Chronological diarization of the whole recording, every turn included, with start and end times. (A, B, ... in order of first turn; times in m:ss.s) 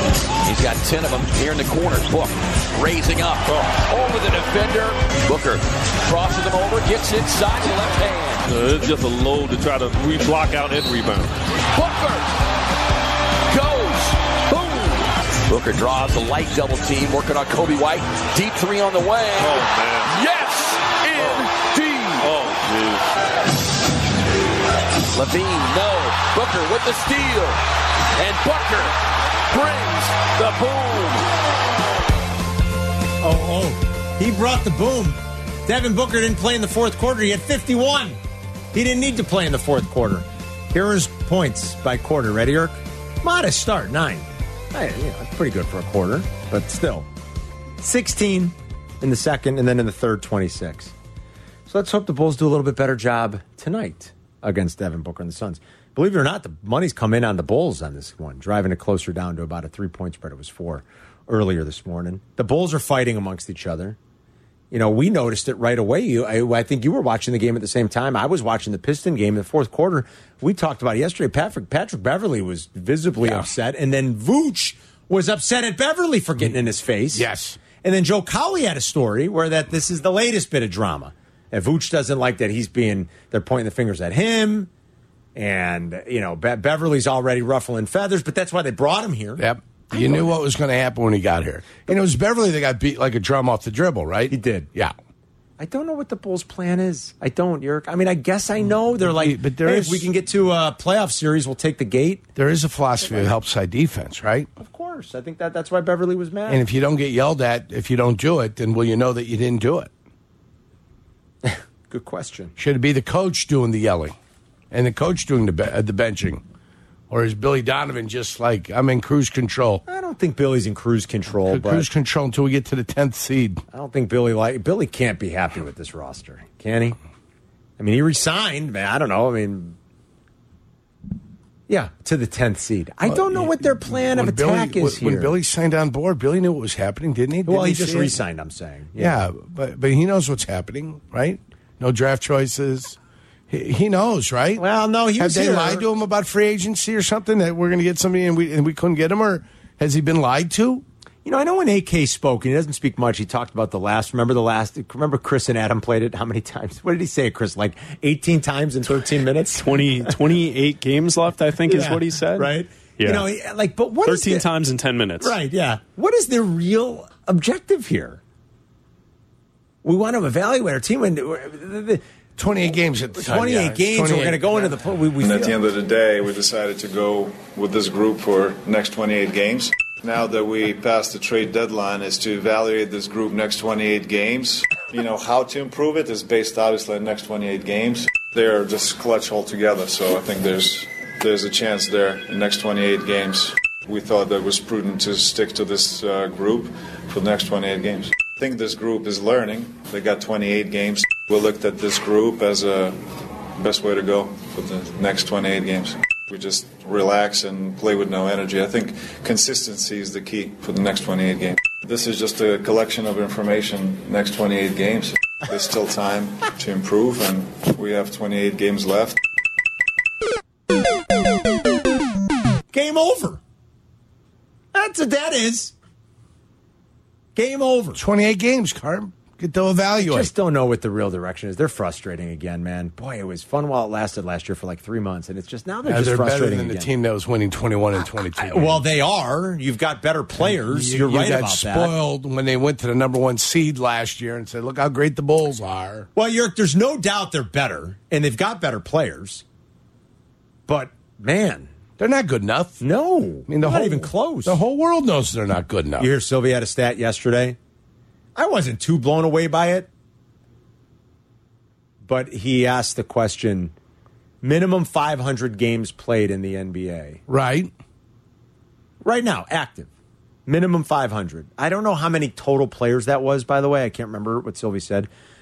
0:00.4-0:08.4 A
0:03.5-0:03.8 B
0:08.5-0:11.4 B
0:11.7-0:12.4 A
0:13.5-0:22.3 A
0:19.4-0:20.1 B
0:21.2-0:21.5 B
0:22.2-0:23.0 B
0:25.1-0:27.6 A
0:28.2-0:28.9 A
0:29.5-0:31.2 A
0:33.2-0:38.2 C
0:38.7-0:47.1 C
0:47.8-0:50.9 C
0:51.7-1:04.0 C
1:04.7-1:24.7 C
1:17.1-1:17.6 D
1:25.3-1:30.3 C
1:29.4-1:34.9 D
1:34.3-1:34.7 C
1:35.6-1:42.3 C
1:39.0-1:40.0 D
1:42.4-1:44.5 D
1:43.0-1:43.4 C
1:44.6-1:46.6 C
1:46.5-1:49.9 D
1:51.4-1:52.5 C
1:52.6-1:54.1 D
1:54.7-1:56.4 D
1:57.1-1:59.8 D
1:59.9-2:01.9 C
2:01.5-2:03.6 D
2:03.7-2:07.0 C
2:07.8-2:09.8 C
2:11.7-2:15.3 C
2:13.0-2:18.1 D
2:17.4-2:19.2 C
2:19.0-2:23.0 D
2:23.5-2:24.6 D
2:24.6-2:25.8 C
2:25.2-2:30.8 D
2:31.2-2:40.2 C
2:39.6-2:43.2 E
2:41.6-2:44.5 C
2:44.0-2:45.3 E
2:45.2-2:48.2 C
2:49.8-2:52.0 C
2:52.4-2:54.7 D
2:53.2-2:55.6 C
2:55.2-3:39.2 F
3:42.7-3:43.4 C
3:44.7-3:45.7 C
3:47.3-3:48.0 C
3:48.0-3:50.3 D
3:50.0-3:56.9 C
3:55.8-3:58.8 D
3:58.4-4:01.9 C
4:00.4-4:06.1 D
4:06.2-4:09.4 C
4:10.7-4:11.7 C
4:12.0-4:12.8 D
4:12.8-4:14.6 C
4:13.5-4:16.1 D
4:16.0-4:17.6 C
4:18.4-4:19.9 C
4:22.0-4:23.7 C
4:24.4-4:27.2 C
4:27.3-4:27.7 D
4:29.0-4:29.9 C
4:30.4-4:35.1 C